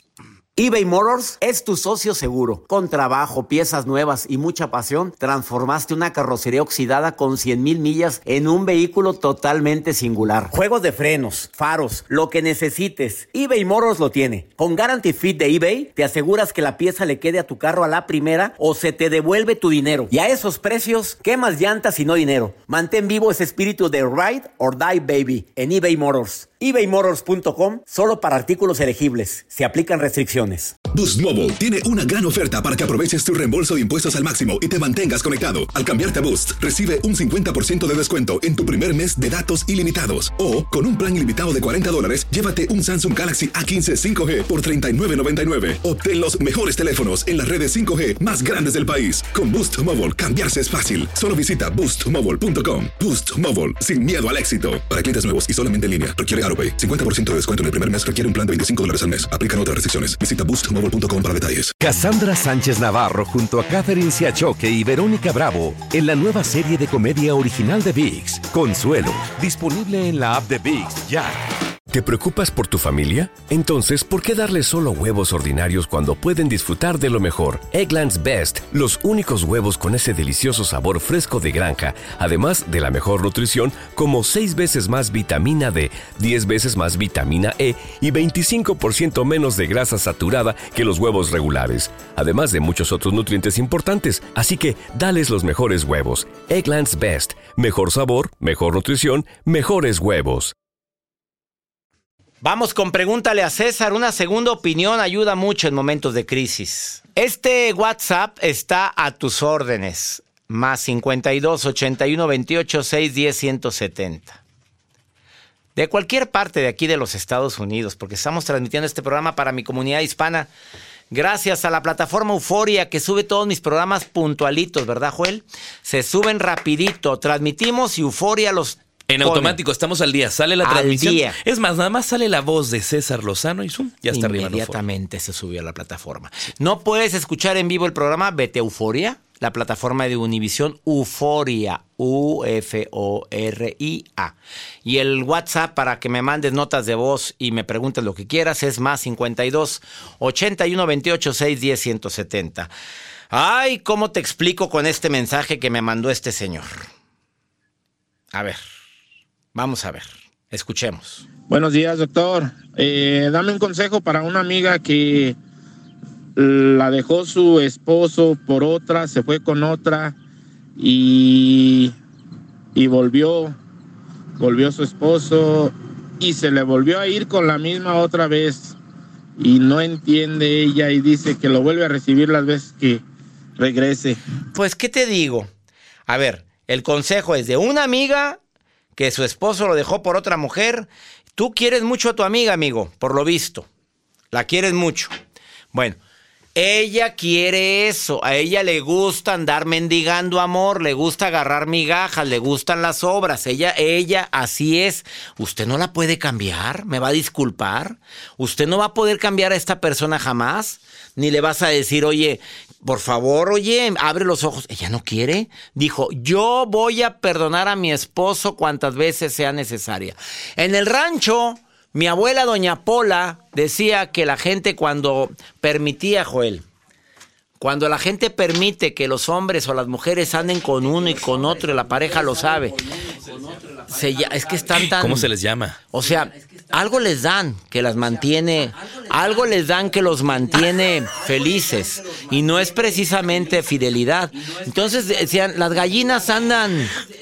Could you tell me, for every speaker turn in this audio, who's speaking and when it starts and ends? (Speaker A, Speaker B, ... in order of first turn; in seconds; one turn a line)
Speaker A: 0.6-30.7
Speaker B: 30.9-61.8
Speaker C: 61.8-71.4
Speaker D: 71.9-100.5
Speaker A: 102.4-114.4
Speaker A: 115.8-120.5
Speaker A: 121.1-129.6
Speaker E: 129.1-134.8
Speaker A: 130.6-131.4
Speaker A: 134.1-152.7
Speaker A: 153.3-156.8
Speaker A: 158.3-158.6
Speaker A: 159.5-161.2
Speaker F: 161.5-165.4
Speaker F: 166.3-170.2
Speaker F: 170.8-171.9
Speaker F: 172.7-173.5
Speaker F: 174.4-178.8
Speaker F: 179.4-183.0
Speaker F: 183.6-184.2
Speaker A: 184.5-185.5
Speaker A: 186.1-188.4
Speaker A: 189.0-193.7
Speaker A: 194.3-195.1
Speaker A: 195.7-196.0
Speaker A: 196.5-226.6
Speaker A: 227.6-233.1
Speaker A: 233.7-235.3
Speaker E: 234.7-235.8
Speaker A: 235.9-246.9